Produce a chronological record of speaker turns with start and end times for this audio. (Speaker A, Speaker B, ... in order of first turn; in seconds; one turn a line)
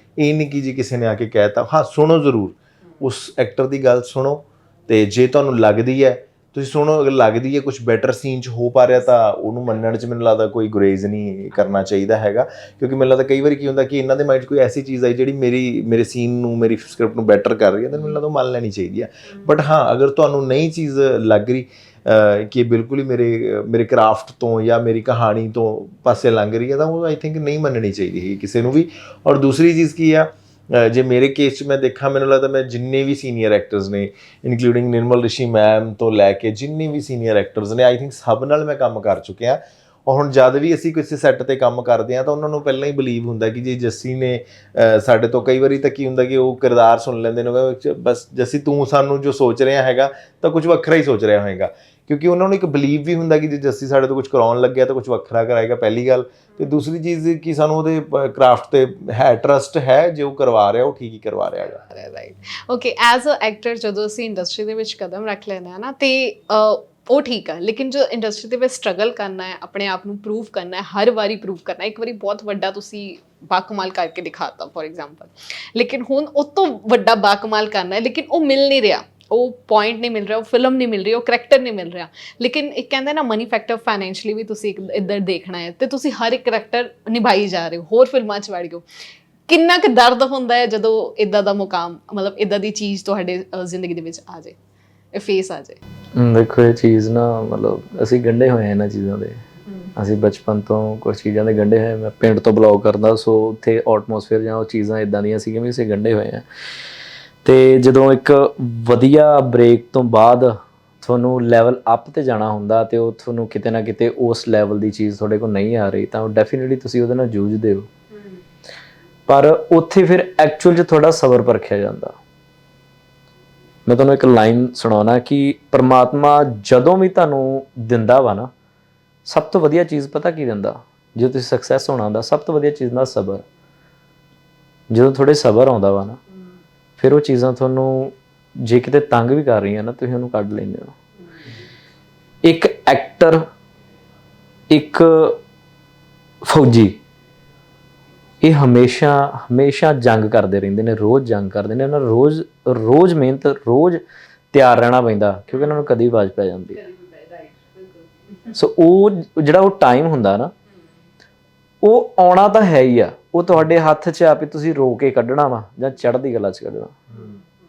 Speaker A: 0.2-61.9
Speaker B: 61.8-88.8
Speaker B: 89.5-94.6
Speaker B: 95.1-95.8
Speaker C: 96.2-99.4
Speaker C: 100.0-106.4
Speaker C: 107.4-117.9
Speaker B: 118.1-118.4
Speaker C: 119.3-122.2
Speaker C: 123.9-128.5
Speaker C: 129.3-133.4
Speaker C: 134.9-136.2
Speaker C: 137.0-140.9
Speaker C: 142.4-143.5
Speaker C: 144.7-145.4
Speaker C: 146.4-147.0
Speaker C: 148.4-156.8
Speaker B: 156.8-158.5
Speaker C: 158.5-160.5
Speaker C: 161.8-167.0